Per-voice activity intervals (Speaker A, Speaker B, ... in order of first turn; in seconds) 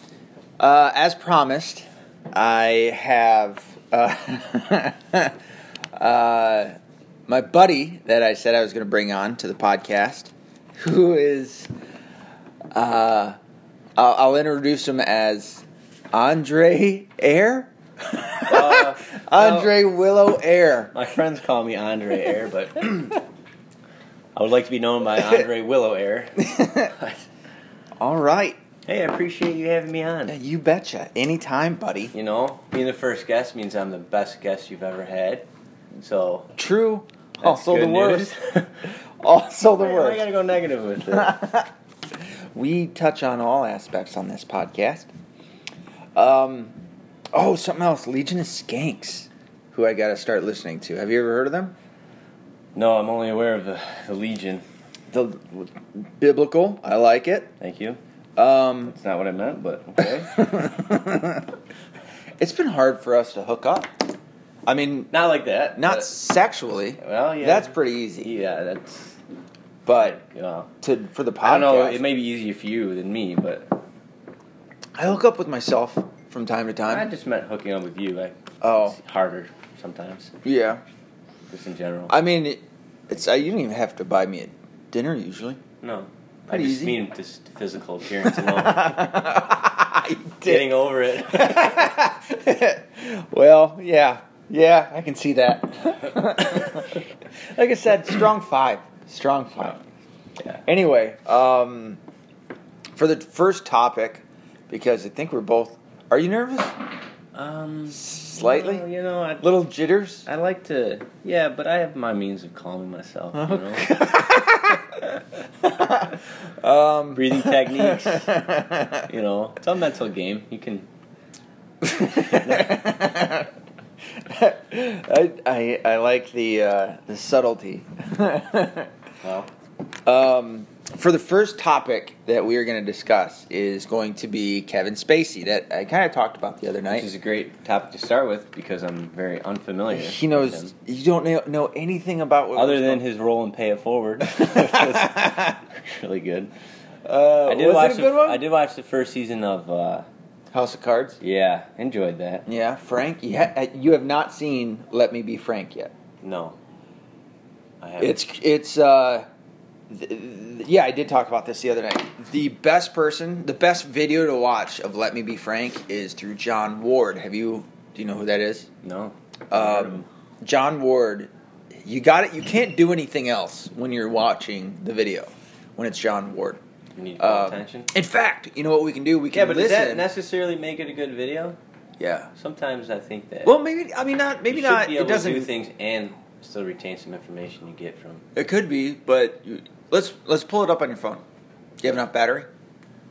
Speaker A: 0.6-5.3, 5.9-6.8, 7.3-11.7, 12.7-13.4, 14.0-20.9, 26.4-26.9, 28.0-28.6, 30.3-32.1, 36.5-38.3, 39.2-40.2, 41.1-41.7, 42.5-45.1, 46.1-46.7, 47.3-51.7, 55.1-57.5, 58.4-58.9, 60.0-61.5, 62.4-63.9, 64.7-65.1, 65.7-68.3, 69.8-70.2, 70.8-72.0, 75.0-77.1, 78.6-79.0, 80.4-80.8, 82.1-85.6, 86.5-87.0, 88.2-99.8, 100.7-102.0, 103.0-106.8, 107.9-108.8, 109.4-110.2, 113.3-119.0, 121.8-123.5, 124.1-128.9, 130.0-137.1, 139.9-143.0, 144.3-145.6, 147.0-148.4, 150.5-151.2, 152.5-155.9, 158.0-159.3, 159.9-168.7, 169.5-176.6, 177.2-180.1, 182.0-182.3, 183.4-185.5, 188.3-191.2, 191.8-192.5
Speaker B: 18.5-19.7, 20.9-23.2, 24.3-27.2, 28.9-30.4, 32.1-36.5, 37.4-38.9, 39.8-41.4, 52.7-54.6, 57.6-58.0, 58.9-60.3, 65.1-66.1, 67.0-69.2, 70.0-70.7, 71.4-73.7, 76.9-80.3, 81.5-82.1, 85.8-89.0, 90.4-91.9, 107.3-109.5, 110.2-114.0, 117.1-118.3, 119.1-120.9, 122.2-122.8, 129.2-129.5, 136.9-140.7, 142.5-146.5, 147.4-150.1, 151.2-152.4, 156.2-156.6, 157.8-158.2, 168.8-170.1, 176.9-177.9, 179.3-181.6, 182.3-183.6, 184.5-188.2